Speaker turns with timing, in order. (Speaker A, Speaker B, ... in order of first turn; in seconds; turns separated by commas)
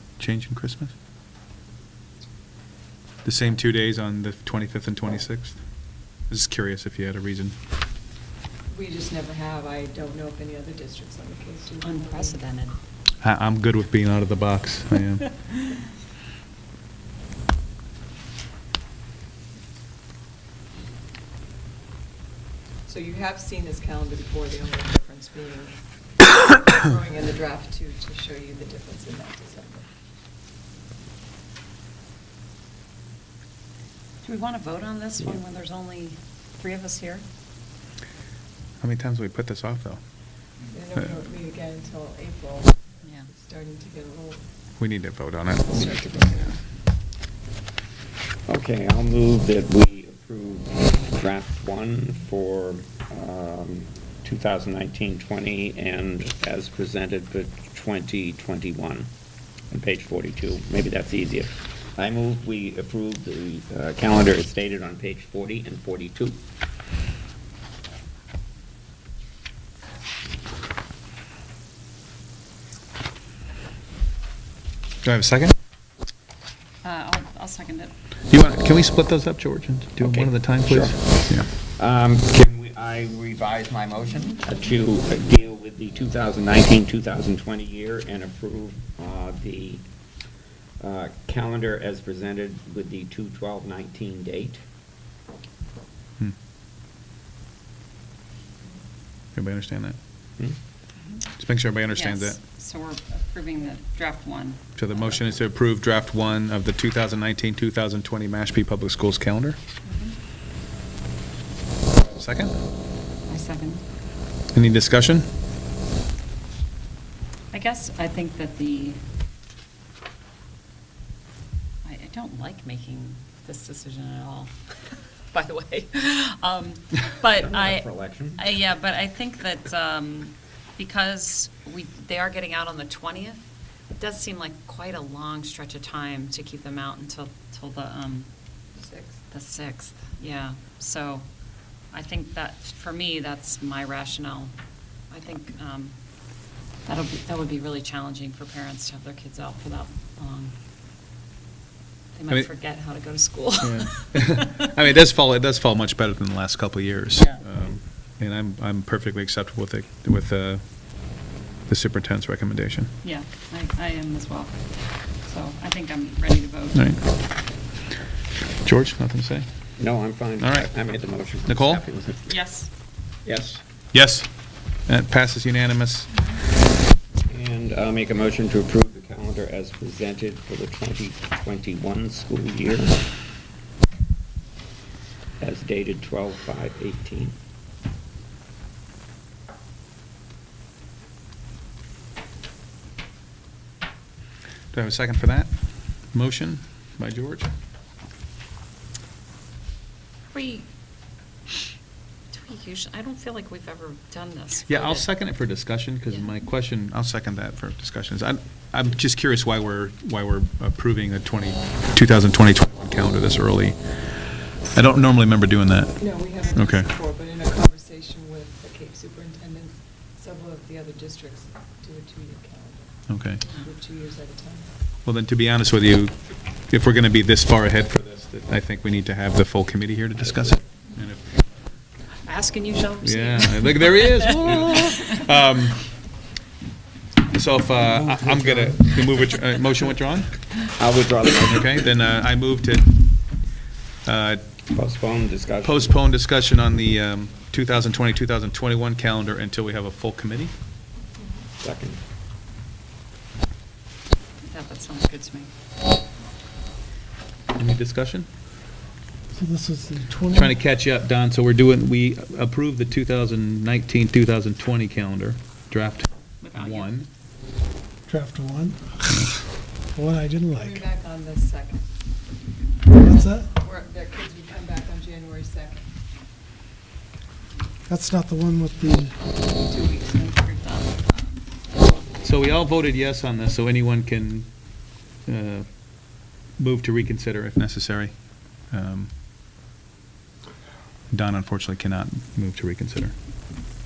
Speaker A: 0.2-0.9, Speaker A: 3.2-5.6, Speaker A: 6.3-7.6, Speaker B: 8.7-12.4, Speaker C: 11.8-12.8, Speaker A: 13.2-15.3, Speaker B: 22.9-25.8, Speaker B: 26.3-29.9, Speaker C: 34.2-37.2, Speaker A: 38.8-40.0, Speaker B: 40.7-42.7, Speaker B: 43.3-44.4, Speaker A: 44.8-46.3, Speaker B: 45.7-46.6, Speaker D: 48.5-59.1, Speaker D: 59.7-66.4, Speaker A: 75.0-75.5, Speaker C: 76.8-77.9, Speaker A: 78.3-81.5, Speaker D: 80.0-89.8, Speaker D: 90.8-94.6, Speaker A: 99.3-100.0, Speaker A: 101.4-102.4, Speaker C: 101.9-104.7, Speaker A: 104.8-109.6, Speaker C: 109.9-110.2, Speaker A: 112.2-112.5, Speaker C: 113.3-113.8, Speaker A: 114.5-115.3, Speaker C: 117.5-119.0, Speaker C: 121.8-124.8, Speaker C: 125.3-133.4, Speaker D: 127.3-128.4, Speaker C: 134.0-138.3, Speaker B: 138.8-139.2, Speaker C: 139.3-141.3, Speaker C: 141.9-144.5, Speaker C: 145.1-145.9, Speaker C: 146.9-150.5, Speaker C: 152.2-154.7, Speaker A: 153.6-160.7, Speaker A: 161.7-162.9, Speaker C: 163.0-166.9, Speaker A: 166.7-167.0, Speaker A: 168.6-169.5, Speaker D: 169.8-172.4, Speaker A: 170.4-170.7, Speaker A: 171.5-171.8, Speaker C: 172.3-172.7, Speaker D: 173.2-173.6, Speaker A: 173.9-174.3, Speaker A: 174.9-176.1, Speaker D: 177.3-183.1, Speaker D: 185.4-187.4, Speaker A: 194.7-195.5, Speaker A: 196.1-197.5, Speaker C: 200.3-200.7, Speaker C: 202.3-205.1, Speaker A: 204.7-213.8, Speaker C: 206.1-206.3, Speaker A: 214.7-216.0, Speaker B: 216.0-224.7, Speaker A: 216.6-216.9, Speaker A: 223.1-223.4, Speaker A: 225.1-226.2, Speaker A: 226.7-231.3, Speaker C: 232.2-235.2, Speaker A: 233.0-235.9, Speaker A: 237.3-240.3, Speaker D: 240.8-241.8, Speaker A: 241.5-243.0, Speaker A: 244.1-244.4, Speaker D: 244.7-246.0, Speaker A: 245.6-250.5, Speaker D: 251.6-252.0, Speaker C: 254.5-255.5, Speaker A: 257.6-258.3, Speaker E: 259.3-260.6, Speaker A: 260.3-267.1, Speaker C: 266.4-266.9, Speaker E: 268.1-269.3, Speaker A: 269.1-269.4, Speaker E: 269.9-270.9, Speaker B: 270.6-271.8, Speaker E: 272.9-273.5, Speaker B: 273.5-275.8, Speaker E: 277.9-279.2, Speaker C: 279.6-281.4, Speaker B: 279.7-280.0, Speaker A: 282.2-284.5, Speaker A: 285.3-285.7, Speaker A: 286.6-288.2, Speaker A: 288.7-289.1, Speaker A: 291.1-293.1